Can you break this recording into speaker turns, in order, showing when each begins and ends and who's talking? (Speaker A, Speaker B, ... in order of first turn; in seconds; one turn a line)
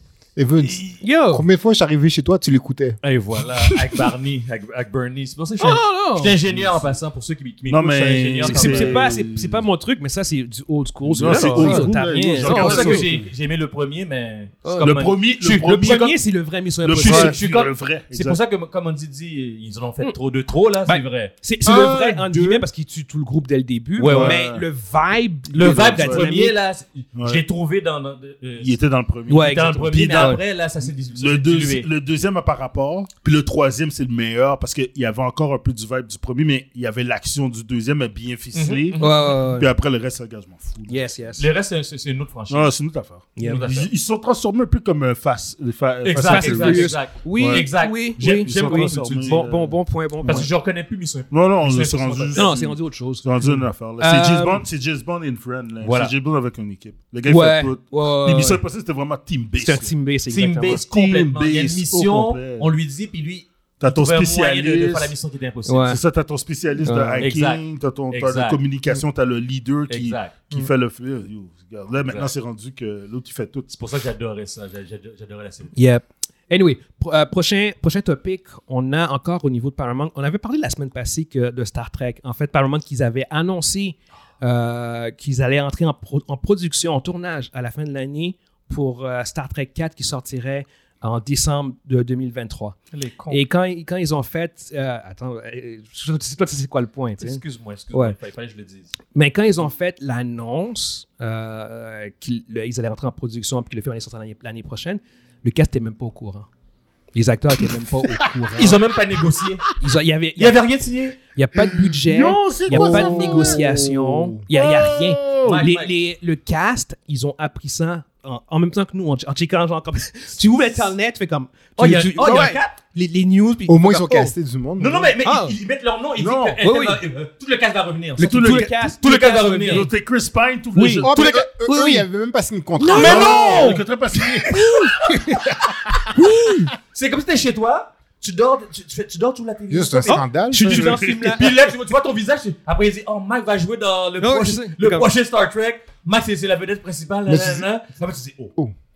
Speaker A: 0.4-3.0
Speaker B: 1.0-1.4
Speaker C: 3.0-9.1
Speaker B: 5.6-6.4
Speaker D: 6.5-6.9
Speaker D: 7.7-9.6
Speaker B: 8.4-13.1
Speaker D: 11.1-13.2
Speaker C: 11.2-15.2
Speaker A: 11.4-11.9
Speaker B: 14.6-17.4
Speaker D: 14.8-16.2
Speaker D: 16.8-18.4
Speaker C: 16.9-22.6
Speaker B: 20.8-26.6
Speaker D: 21.7-21.9
Speaker C: 24.0-24.4
Speaker D: 24.0-24.7
Speaker C: 25.5-28.8
Speaker D: 25.6-26.4
Speaker D: 27.1-27.4
Speaker D: 28.6-30.4
Speaker B: 29.3-30.4
Speaker C: 29.3-31.9
Speaker D: 31.1-41.2
Speaker C: 38.5-39.3
Speaker B: 39.0-39.7
Speaker B: 40.9-41.5
Speaker C: 41.4-42.7
Speaker D: 42.5-50.5
Speaker B: 43.4-43.6
Speaker C: 43.4-43.9
Speaker C: 46.0-49.5
Speaker B: 46.2-50.5
Speaker C: 50.2-52.5
Speaker D: 51.3-59.9
Speaker B: 52.3-54.6
Speaker C: 55.8-56.1
Speaker B: 57.3-58.6
Speaker B: 59.6-60.8
Speaker C: 60.3-66.0
Speaker D: 60.6-62.7
Speaker D: 63.8-65.1
Speaker B: 65.7-66.0
Speaker D: 65.9-73.7
Speaker B: 66.8-67.3
Speaker C: 67.2-68.6
Speaker C: 69.9-70.4
Speaker C: 72.0-72.3
Speaker C: 73.7-75.7
Speaker B: 75.7-92.8
Speaker C: 92.9-93.4
Speaker B: 93.3-98.2
Speaker C: 97.2-98.9
Speaker B: 99.1-106.5
Speaker B: 107.1-108.8
Speaker C: 108.5-109.8
Speaker B: 109.8-110.6
Speaker C: 110.4-111.2
Speaker B: 111.2-124.3
Speaker D: 111.6-115.6
Speaker A: 112.7-113.9
Speaker C: 115.4-115.9
Speaker C: 121.8-122.8
Speaker A: 123.7-125.1
Speaker C: 124.8-129.9
Speaker B: 125.2-125.5
Speaker D: 126.2-126.6
Speaker B: 126.6-127.0
Speaker B: 128.2-129.9
Speaker D: 128.2-128.7
Speaker D: 129.7-131.3
Speaker B: 130.7-132.1
Speaker A: 131.0-133.7
Speaker B: 132.8-133.8
Speaker D: 132.9-134.5
Speaker C: 133.0-136.0
Speaker B: 134.4-135.2
Speaker A: 135.1-135.3
Speaker B: 136.1-136.7
Speaker C: 136.9-148.5
Speaker A: 139.7-140.9
Speaker B: 140.5-141.5
Speaker D: 140.6-141.5
Speaker B: 144.2-145.1
Speaker A: 147.3-147.7